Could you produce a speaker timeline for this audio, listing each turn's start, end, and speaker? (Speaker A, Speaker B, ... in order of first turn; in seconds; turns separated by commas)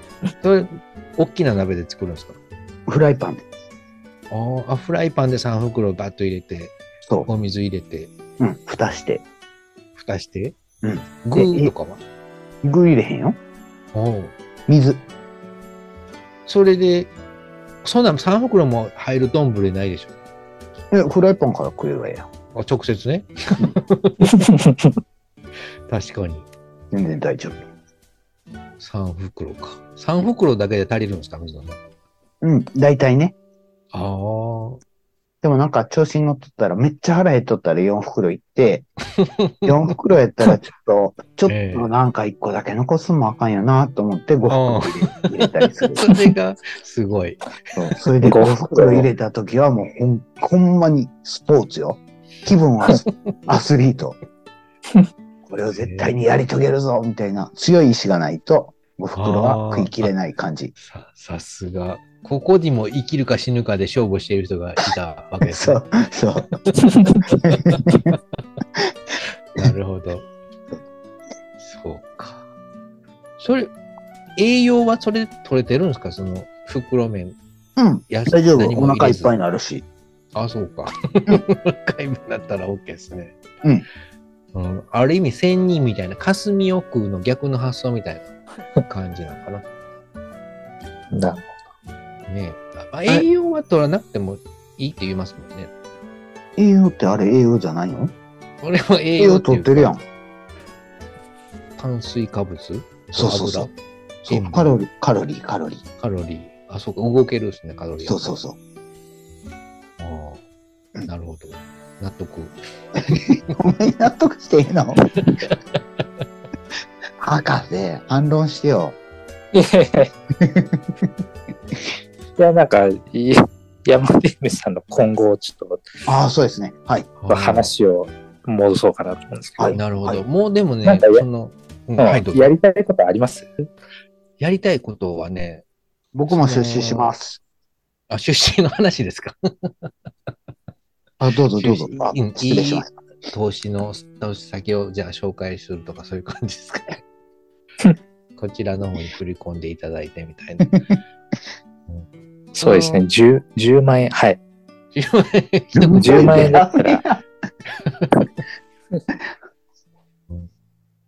Speaker A: 0.4-2.4, Speaker B: 2.9-3.4, Speaker A: 4.3-8.1, Speaker B: 8.4-9.2, Speaker A: 9.9-10.6, Speaker B: 10.8-11.7, Speaker A: 11.2-12.0, Speaker B: 12.6-13.4, Speaker A: 13.9-14.3, Speaker B: 14.7-15.0, Speaker A: 16.4-17.1, Speaker A: 17.8-20.1, Speaker B: 20.9-22.3, Speaker A: 22.5-24.5, Speaker C: 24.5-24.9, Speaker A: 25.9-26.5, Speaker B: 26.9-27.6, Speaker A: 28.8-31.8, Speaker B: 32.4-33.3, Speaker A: 33.9-34.8, Speaker B: 35.4-38.9, Speaker A: 39.2-39.7, Speaker B: 39.6-46.0, Speaker A: 41.5-41.9, Speaker A: 44.5-47.5, Speaker B: 47.8-54.2, Speaker C: 48.2-49.1, Speaker A: 53.0-53.3, Speaker B: 55.5-60.7, Speaker A: 55.8-56.1, Speaker A: 59.1-60.1, Speaker A: 60.8-65.8, Speaker B: 65.4-66.5, Speaker A: 66.5-68.2, Speaker B: 67.4-68.2, Speaker A: 69.5-70.3, Speaker A: 71.6-72.4, Speaker A: 73.4-73.7, Speaker A: 74.3-77.4, Speaker B: 77.8-79.8, Speaker A: 78.1-79.3, Speaker A: 80.3-83.4, Speaker A: 84.5-88.3, Speaker A: 88.8-89.6, Speaker C: 91.1-91.6, Speaker A: 92.3-95.7, Speaker B: 96.6-98.1, Speaker A: 98.6-99.9, Speaker B: 99.2-100.0, Speaker A: 101.8-103.7, Speaker B: 103.1-103.7, Speaker A: 104.2-104.7, Speaker B: 104.3-105.8, Speaker A: 106.0-108.3, Speaker B: 108.0-108.6, Speaker A: 110.0-110.4, Speaker A: 111.0-113.3, Speaker B: 113.1-115.0, Speaker A: 115.2-115.6, Speaker B: 117.2-119.0, Speaker C: 119.5-120.1, Speaker B: 120.4-121.1, Speaker C: 122.4-125.8, Speaker B: 126.1-127.1, Speaker A: 127.2-127.7, Speaker C: 127.3-129.8, Speaker B: 129.6-130.2, Speaker A: 129.7-132.5, Speaker C: 130.8-131.2, Speaker C: 132.0-133.7, Speaker A: 134.4-135.6, Speaker B: 136.1-137.4, Speaker A: 136.3-137.1, Speaker A: 138.1-139.9, Speaker B: 141.2-142.9, Speaker A: 141.5-147.0, Speaker A: 148.4-150.8, Speaker A: 151.9-153.0, Speaker C: 152.6-154.4, Speaker A: 154.9-156.6, Speaker B: 155.8-157.2, Speaker C: 156.0-157.0, Speaker A: 157.8-158.2